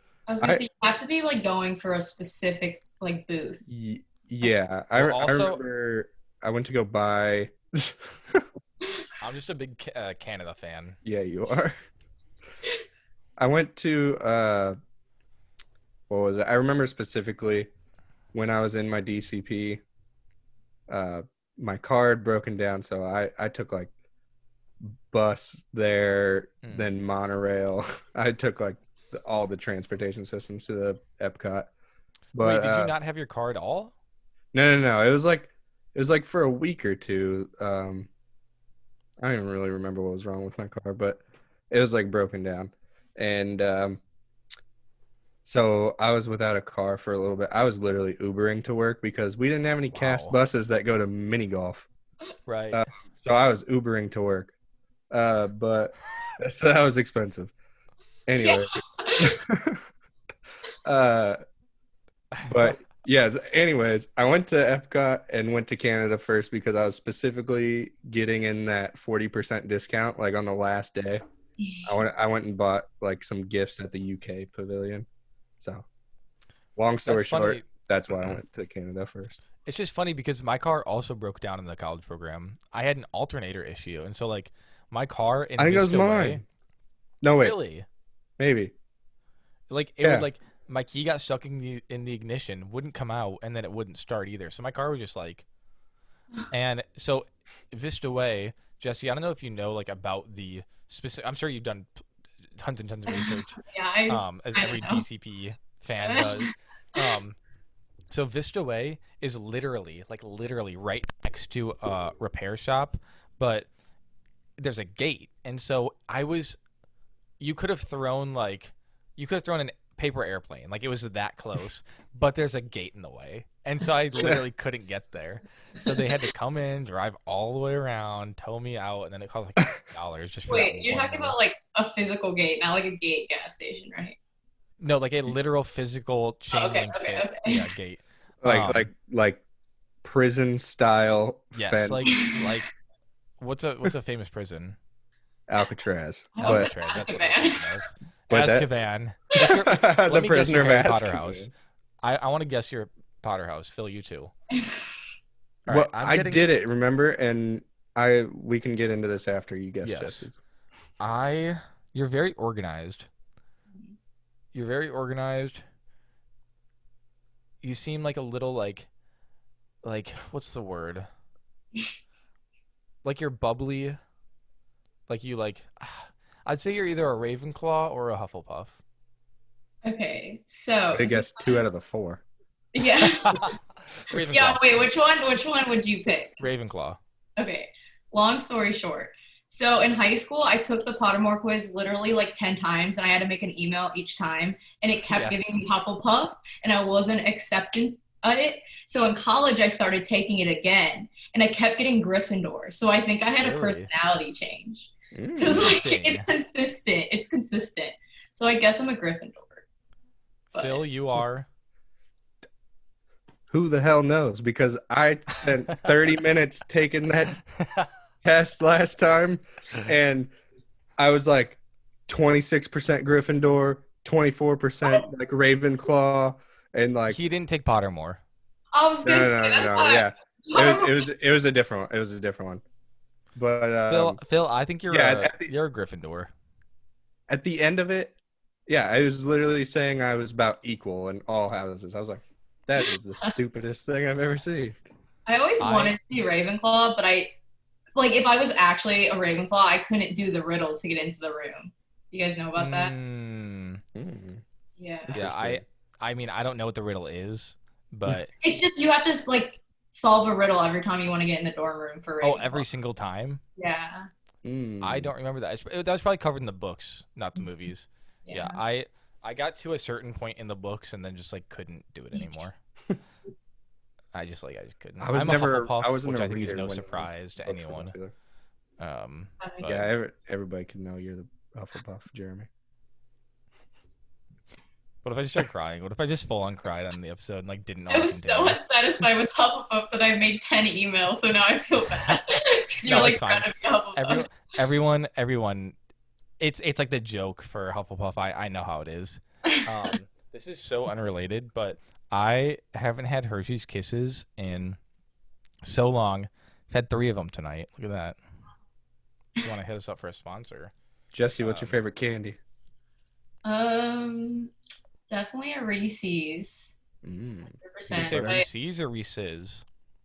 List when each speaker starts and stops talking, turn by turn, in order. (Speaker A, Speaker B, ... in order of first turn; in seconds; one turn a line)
Speaker A: 0.3-3.6
Speaker B: 3.7-8.5
Speaker C: 5.0-5.6
Speaker C: 9.2-11.0
Speaker B: 11.0-11.7
Speaker B: 13.4-14.8
Speaker B: 16.1-17.7
Speaker B: 18.3-19.8
Speaker B: 20.9-23.9
Speaker B: 25.1-31.7
Speaker C: 26.6-26.9
Speaker B: 32.3-32.9
Speaker C: 32.4-33.9
Speaker B: 34.5-38.1
Speaker B: 39.2-44.0
Speaker B: 45.4-51.9
Speaker C: 49.9-50.4
Speaker C: 52.5-52.8
Speaker B: 52.7-54.5
Speaker B: 55.1-57.5
Speaker B: 58.3-59.8
Speaker A: 58.4-59.4
Speaker B: 60.8-61.4
Speaker C: 62.3-62.7
Speaker B: 62.4-71.2
Speaker B: 71.8-75.1
Speaker B: 75.6-75.8
Speaker B: 76.8-79.4
Speaker C: 77.0-78.4
Speaker C: 79.6-86.4
Speaker B: 85.6-86.4
Speaker B: 87.2-87.5
Speaker C: 87.4-87.8
Speaker B: 88.4-88.7
Speaker C: 89.7-95.4
Speaker B: 90.0-90.3
Speaker C: 96.5-102.0
Speaker C: 102.6-107.4
Speaker A: 103.1-105.0
Speaker A: 106.0-107.0
Speaker C: 108.1-113.7
Speaker C: 114.6-116.6
Speaker C: 117.4-131.3
Speaker A: 130.5-134.2
Speaker C: 134.8-138.9
Speaker A: 136.5-137.6
Speaker B: 138.4-139.4
Speaker B: 140.0-142.1
Speaker C: 141.5-142.7
Speaker A: 142.1-142.4
Speaker C: 143.4-144.8
Speaker B: 145.5-146.7
Speaker A: 146.3-147.7
Speaker C: 146.4-151.5
Speaker B: 148.3-148.7
Speaker B: 149.4-151.5
Speaker C: 152.0-154.3
Speaker A: 154.5-154.9
Speaker C: 155.7-156.5
Speaker B: 155.7-160.4
Speaker C: 159.8-160.3
Speaker C: 161.0-163.1
Speaker C: 164.5-165.6
Speaker C: 167.6-168.9
Speaker C: 169.8-171.1
Speaker C: 173.0-174.0
Speaker C: 175.1-178.8
Speaker A: 179.8-181.6
Speaker B: 180.9-182.2
Speaker A: 182.7-183.5
Speaker C: 183.0-184.9
Speaker A: 184.1-186.4
Speaker C: 186.4-187.0
Speaker A: 187.4-209.6
Speaker C: 195.1-195.6
Speaker C: 203.4-203.9
Speaker B: 205.1-205.7
Speaker C: 205.4-206.3
Speaker C: 210.5-211.5
Speaker A: 210.5-210.8
Speaker B: 213.5-217.4
Speaker C: 217.6-217.9
Speaker B: 218.2-220.3
Speaker B: 221.0-227.2
Speaker C: 227.1-228.2
Speaker A: 228.7-231.1
Speaker B: 229.0-232.6
Speaker B: 233.3-234.2
Speaker C: 233.9-236.3
Speaker B: 234.9-235.5
Speaker B: 237.3-238.2
Speaker B: 238.7-244.8
Speaker A: 245.2-247.3
Speaker C: 245.6-245.9
Speaker A: 247.9-252.9
Speaker C: 252.6-253.8
Speaker B: 253.9-254.4
Speaker A: 254.8-255.2
Speaker B: 255.1-255.6
Speaker C: 255.1-258.3
Speaker A: 258.4-262.6
Speaker C: 262.2-263.4
Speaker A: 263.6-264.1
Speaker B: 264.4-265.1
Speaker C: 264.8-272.6
Speaker A: 268.2-268.6
Speaker A: 272.2-272.4
Speaker C: 274.1-277.9
Speaker B: 275.0-278.1
Speaker C: 278.8-279.8
Speaker A: 279.4-279.8
Speaker B: 279.6-282.5
Speaker C: 285.0-288.6
Speaker A: 287.9-294.3
Speaker C: 292.0-295.8
Speaker C: 296.4-304.8
Speaker C: 305.6-308.2
Speaker C: 309.4-310.7
Speaker B: 311.1-312.4
Speaker C: 311.4-311.8
Speaker A: 313.4-314.5
Speaker A: 315.1-316.7
Speaker B: 317.0-318.4
Speaker A: 317.6-318.5
Speaker C: 317.9-319.6